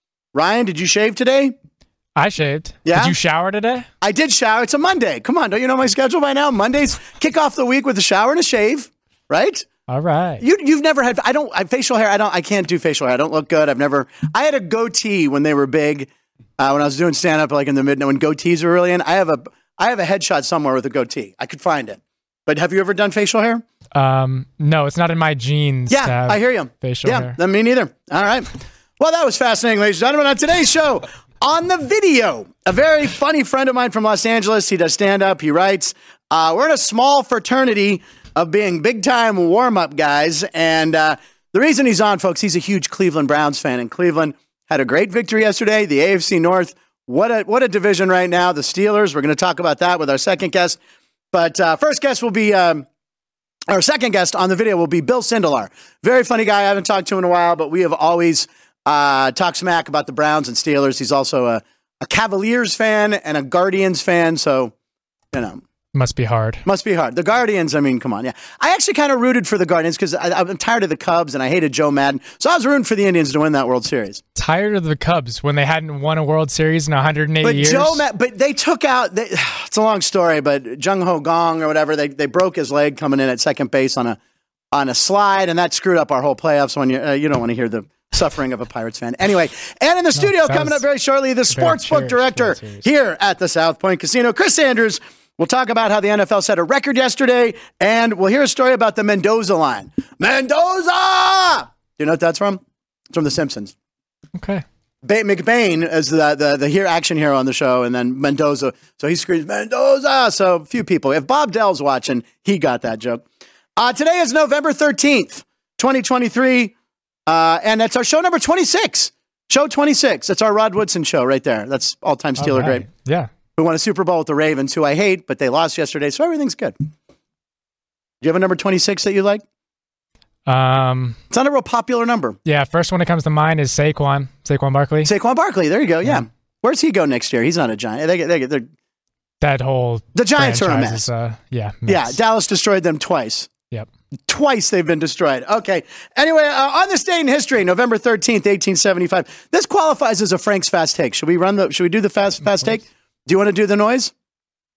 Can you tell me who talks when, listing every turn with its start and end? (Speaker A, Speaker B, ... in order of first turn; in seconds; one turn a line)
Speaker A: 0.3-1.5
Speaker B: 2.1-3.9
Speaker A: 2.8-3.1
Speaker A: 4.0-9.7
Speaker B: 9.9-10.4
Speaker A: 10.4-23.6
Speaker B: 23.9-27.4
Speaker A: 25.9-50.8
Speaker A: 51.3-52.9
Speaker A: 53.7-64.7
Speaker A: 65.3-65.6
Speaker B: 65.9-66.6
Speaker A: 66.6-74.2
Speaker B: 74.3-78.0
Speaker A: 77.4-84.2
Speaker A: 84.7-103.7
Speaker B: 90.2-90.8
Speaker B: 91.5-92.8
Speaker B: 104.3-104.6
Speaker A: 105.0-113.2
Speaker A: 113.8-116.7
Speaker A: 117.3-122.8
Speaker B: 122.4-123.3
Speaker A: 123.5-126.7
Speaker A: 128.2-129.4
Speaker B: 130.4-131.2
Speaker A: 131.3-132.4
Speaker B: 132.4-135.1
Speaker A: 135.0-138.7
Speaker B: 139.4-142.2
Speaker A: 140.1-141.1
Speaker A: 141.8-143.5
Speaker A: 144.3-154.1